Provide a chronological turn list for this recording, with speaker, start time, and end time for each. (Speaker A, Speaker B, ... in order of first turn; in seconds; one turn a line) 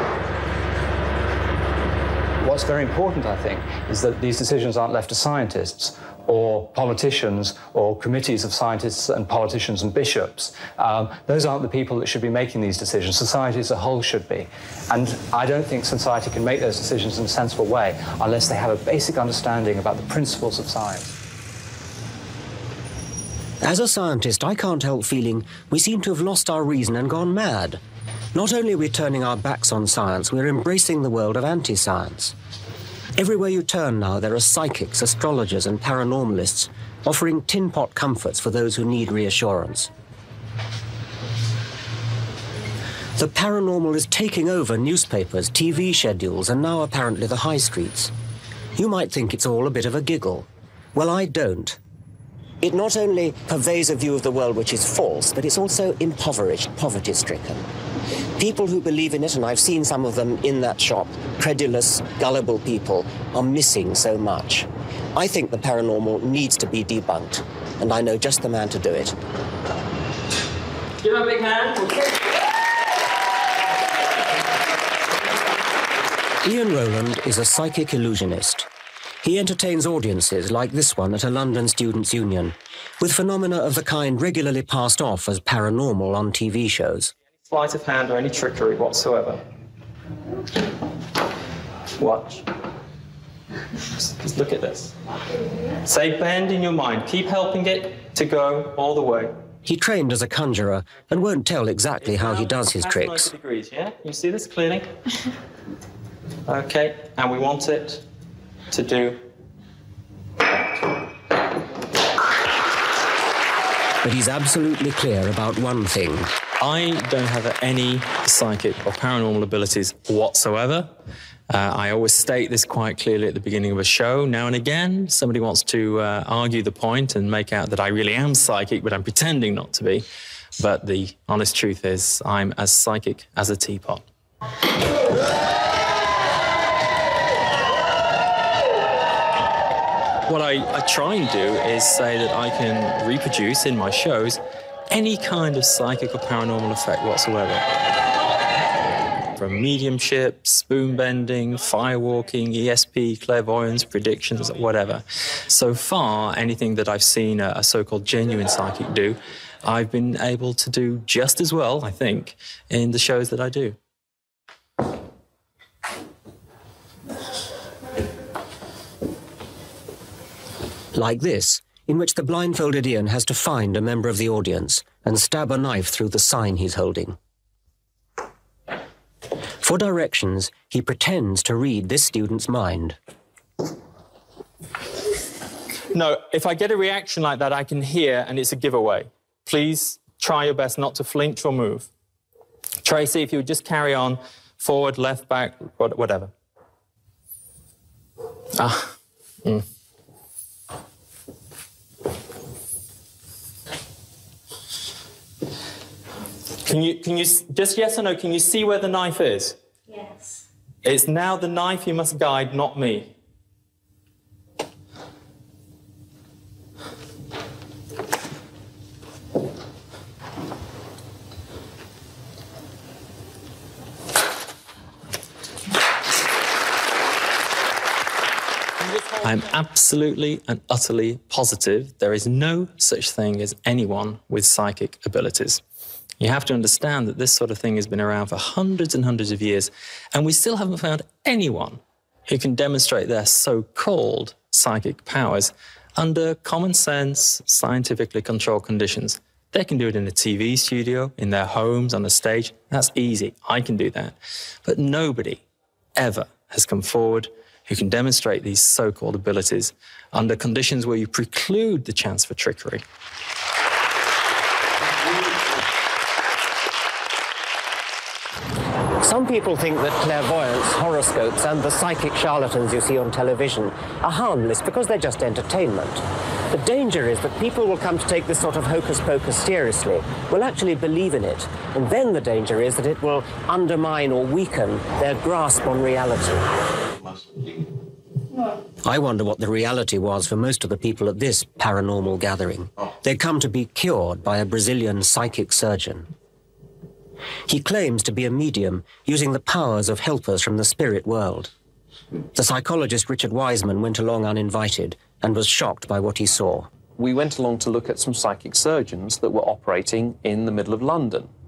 Speaker A: 2.4-21.1
Speaker B: 23.6-27.8
Speaker B: 28.3-32.3
Speaker B: 33.1-39.9
Speaker B: 43.2-48.1
Speaker B: 48.8-51.8
Speaker B: 52.6-57.6
Speaker B: 58.4-69.2
Speaker C: 71.0-72.0
Speaker B: 76.4-78.7
Speaker B: 79.2-87.1
Speaker C: 87.5-89.4
Speaker C: 92.0-92.4
Speaker C: 93.9-94.9
Speaker C: 95.8-99.4
Speaker B: 99.6-103.3
Speaker C: 102.0-104.9
Speaker C: 106.5-108.0
Speaker C: 108.7-109.2
Speaker B: 114.0-116.3
Speaker C: 116.6-120.9
Speaker C: 121.5-130.0
Speaker C: 130.6-134.0
Speaker C: 140.3-147.7
Speaker C: 149.3-163.8
Speaker B: 170.9-177.2
Speaker B: 179.6-183.0
Speaker C: 185.9-191.9
Speaker C: 192.8-196.3
Speaker C: 198.6-198.9
Speaker C: 206.6-209.6
Speaker C: 210.8-213.1
Speaker C: 229.0-235.6
Speaker C: 236.2-255.4
Speaker C: 255.9-262.8
Speaker B: 269.0-286.5
Speaker B: 288.8-296.1
Speaker B: 297.5-301.5
Speaker B: 302.3-306.7
Speaker D: 307.0-311.3